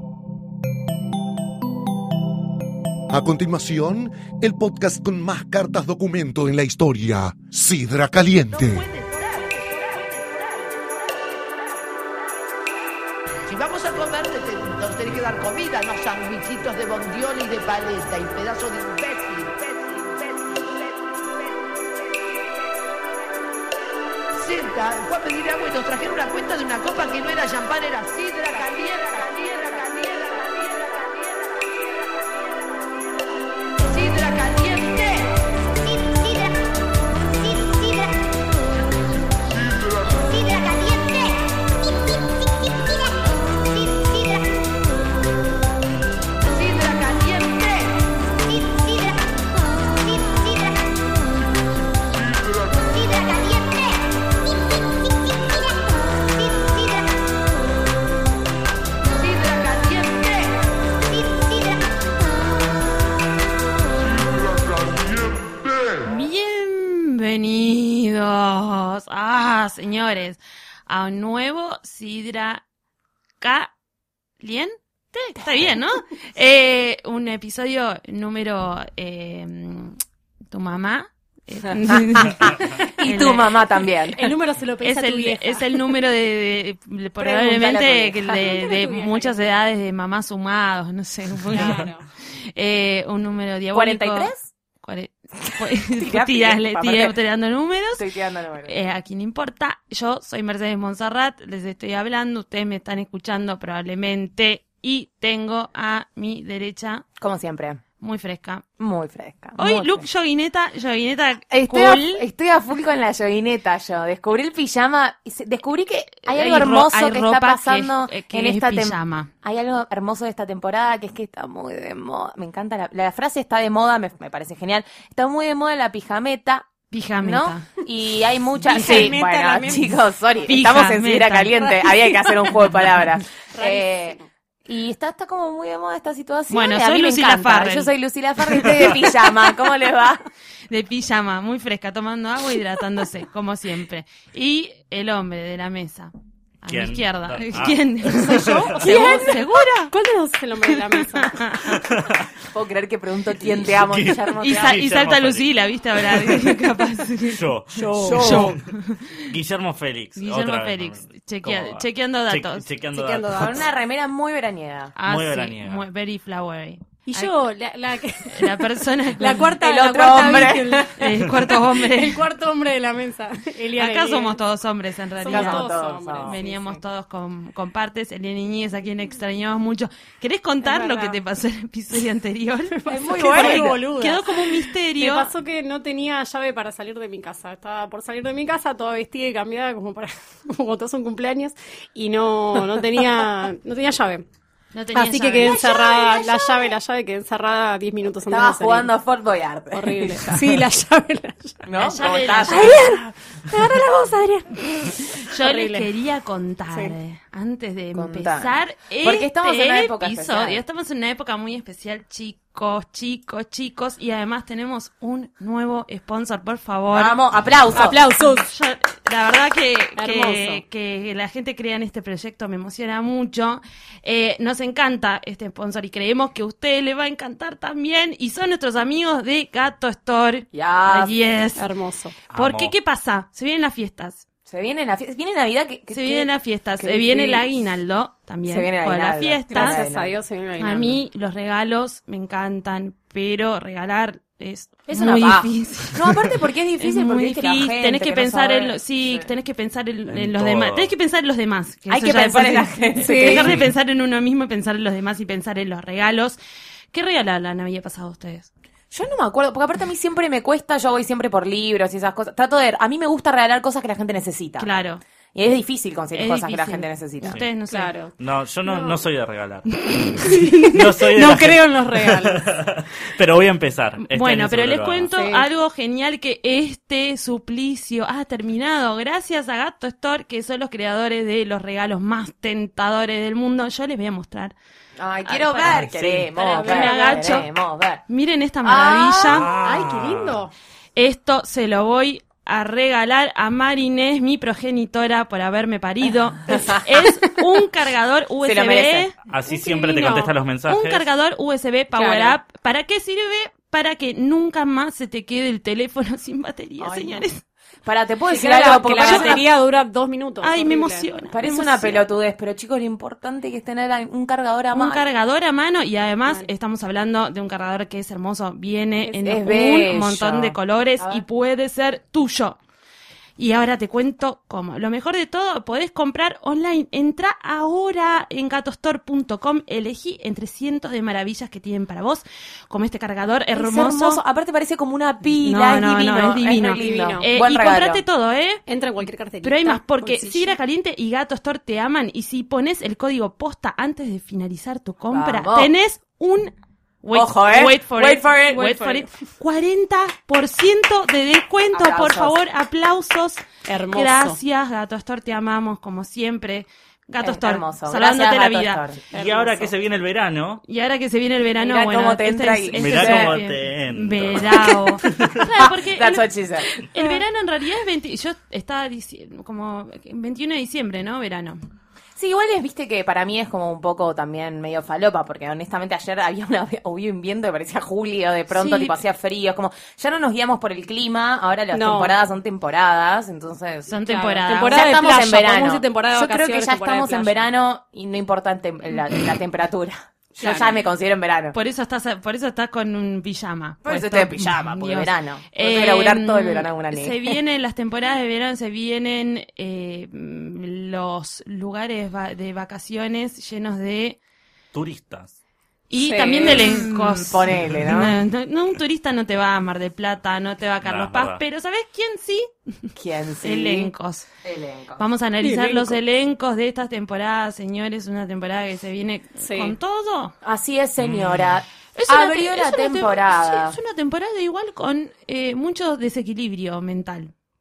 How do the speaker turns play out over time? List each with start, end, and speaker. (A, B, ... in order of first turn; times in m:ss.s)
0:03.1-0:08.9 A
0:08.5-0:11.2 B
0:13.5-0:22.5 B
0:24.3-0:32.2 B
0:33.8-0:36.3 B
0:40.1-0:41.2 B
0:46.4-0:49.0 B
0:53.0-0:53.8 B
0:59.0-1:00.7 B
1:06.0-1:12.6 C
1:13.4-1:13.7 C
1:14.4-1:20.0 C
1:20.5-1:23.6 C
1:21.9-1:24.3 D
1:24.1-1:25.6 E
1:24.8-1:31.9 C
1:27.2-1:28.4 D
1:28.4-1:29.5 E
1:31.5-1:32.0 E
1:32.5-1:34.3 C
1:33.7-1:34.5 D
1:34.8-1:38.0 C
1:35.9-1:37.2 D
1:38.0-1:38.8 D
1:38.7-1:47.0 C
1:47.2-1:47.8 D
1:48.0-1:48.6 C
1:48.8-1:50.0 D
1:49.6-1:52.2 C
1:51.5-2:06.7 D
1:56.2-1:59.3 C
2:06.9-2:07.7 C
2:07.2-2:20.2 D
2:08.6-2:10.0 E
2:08.7-2:09.2 C
2:10.5-2:11.5 C
2:11.6-2:12.5 E
2:13.5-2:14.2 E
2:16.5-2:17.9 C
2:20.7-2:26.1 C
2:26.6-2:29.9 C
2:26.7-2:29.1 F
2:28.1-2:31.4 E
2:30.7-2:31.8 C
2:32.5-2:34.8 D
2:33.7-2:35.5 F
2:34.4-2:39.2 C
2:36.0-2:36.6 F
2:37.3-2:38.6 F
2:37.7-2:38.5 E
2:38.0-2:38.4 D
2:39.2-2:43.6 F
2:40.2-2:42.7 C
2:43.0-2:43.5 E
2:43.3-2:44.9 D
2:44.9-2:47.3 C
2:45.0-2:45.8 F
2:47.0-2:54.4 E
2:48.3-2:49.5 C
2:49.6-2:51.0 D
2:50.1-2:52.2 C
2:53.8-2:55.7 C
2:55.2-2:56.8 E
2:55.3-2:56.4 D
2:56.2-3:05.3 C
3:00.6-3:01.2 E
3:02.8-3:14.2 E
3:02.9-3:03.8 D
3:14.7-3:16.5 C
3:14.9-3:18.9 E
3:15.4-3:16.3 D
3:18.3-3:20.5 D
3:19.7-3:21.6 E
3:21.6-3:22.9 D
3:21.8-3:22.8 C
3:22.5-3:25.9 E
3:25.2-3:37.2 C
3:27.9-3:30.6 D
3:36.9-3:38.0 D
3:37.7-3:38.5 E
3:37.8-3:51.6 C
3:40.0-3:40.6 E
3:50.5-3:51.1 D
3:51.6-3:52.2 E
3:52.3-3:54.2 C
3:52.3-3:52.7 F
3:54.5-3:57.4 D
3:55.9-3:59.8 C
3:58.5-4:00.2 D
3:59.5-4:01.0 E
4:00.6-4:06.1 C
4:04.9-4:09.3 D
4:06.8-4:16.4 C
4:10.1-4:10.9 F
4:11.9-4:13.6 D
4:13.0-4:13.5 E
4:16.9-4:18.5 C
4:18.9-4:24.7 D
4:24.6-4:25.0 C
4:25.3-4:27.4 D
4:26.1-4:27.9 C
4:27.7-4:28.1 E
4:28.2-4:35.1 F
4:28.6-4:29.0 E
4:29.8-4:30.7 C
4:30.3-4:32.5 E
4:34.0-4:44.5 C
4:35.1-4:35.4 E
4:45.0-4:48.0 D
4:45.2-4:47.5 C
4:45.6-4:46.3 F
4:46.5-4:47.4 E
4:48.1-4:49.5 C
4:48.7-4:49.3 D
4:48.8-4:50.5 E
4:49.3-4:50.4 F
4:51.0-5:07.4 C
4:56.5-4:56.8 D
4:58.4-4:59.1 D
4:59.3-5:01.0 F
5:01.9-5:02.4 D
5:06.8-5:07.2 D
5:07.8-5:09.4 D
5:08.3-5:11.2 E
5:09.0-5:09.4 C
5:10.4-5:12.0 C
5:11.3-5:15.0 D
5:14.7-5:22.6 C
5:19.2-5:21.2 D
5:23.4-5:34.2 C
5:33.5-5:38.0 D
5:35.4-5:38.6 C
5:36.7-5:37.3 E
5:38.7-5:40.5 E
5:39.4-5:58.8 C
5:45.1-5:45.7 D
5:47.1-5:48.8 D
5:48.5-5:49.1 E
5:51.7-5:52.4 D
5:53.6-5:54.4 E
5:57.2-5:59.1 D
5:59.1-5:59.7 E
5:59.1-6:00.6 F
6:00.6-6:11.6 C
6:01.6-6:03.4 D
6:02.8-6:05.4 F
6:04.6-6:06.8 D
6:12.2-6:23.9 D
6:18.5-6:19.0 C
6:21.7-6:22.2 E
6:23.9-6:25.0 C
6:24.0-6:27.5 E
6:24.6-6:31.6 D
6:30.4-6:30.8 E
6:31.5-6:44.2 C
6:33.8-6:37.4 D
6:44.7-6:45.4 F
6:45.9-6:54.3 C
6:45.9-6:46.7 E
6:46.4-6:48.2 D
6:47.5-6:47.8 F
6:50.8-6:51.4 F
6:53.0-6:53.9 D
6:54.4-6:55.0 D
6:55.0-7:00.3 C
6:55.4-6:56.0 E
6:59.4-6:59.7 E
7:00.4-7:03.8 D
7:01.0-7:01.5 F
7:01.9-7:07.3 C